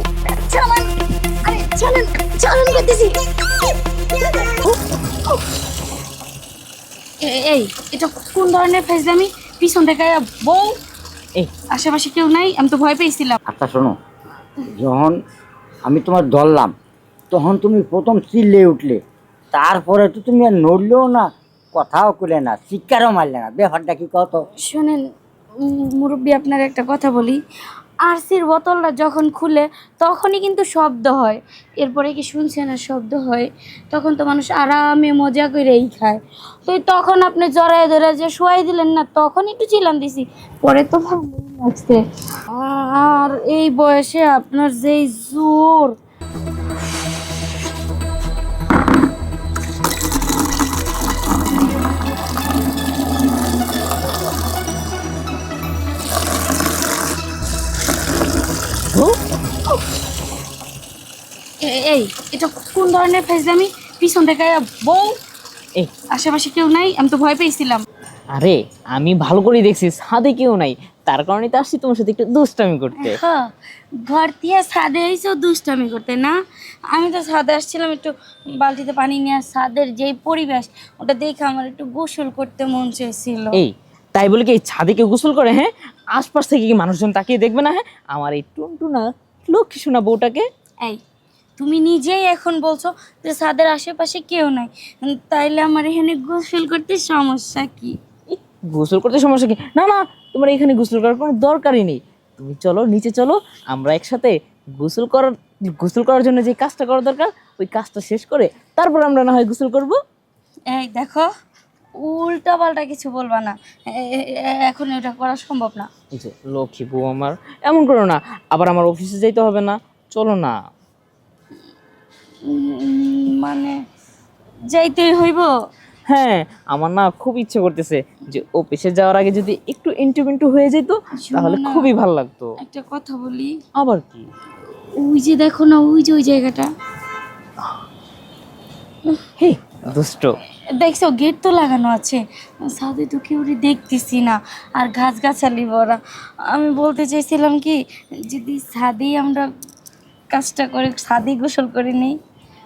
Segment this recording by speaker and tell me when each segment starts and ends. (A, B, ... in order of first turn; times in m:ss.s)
0:00.3-0:03.2 A
0:07.2-0:10.8 A
0:11.7-0:13.4 A
0:13.5-0:14.0 B
0:14.6-0:15.2 B
0:15.8-0:16.7 B
0:17.3-0:19.0 B
0:19.5-0:24.4 B
0:24.6-0:25.0 A
0:25.6-0:27.4 A
0:28.0-0:46.0 A
0:58.9-0:59.2 C
1:01.6-1:05.1 A
1:06.1-1:07.8 A
1:08.3-1:13.2 C
1:13.0-1:13.4 A
1:14.0-1:16.4 A
1:16.9-1:23.6 A
1:23.5-1:30.4 C
1:31.6-1:37.9 A
1:38.3-1:50.0 C
1:50.7-1:51.3 A
1:52.0-1:55.9 A
1:56.1-2:00.6 C
2:02.5-2:03.7 A
2:04.7-2:05.5 A
2:06.1-2:12.5 C
2:11.1-2:11.9 A
2:12.6-2:13.6 A
2:13.8-2:14.2 C
2:15.0-2:16.7 A
2:19.4-2:20.3 C
2:20.7-2:29.5 A
2:30.3-2:32.2 A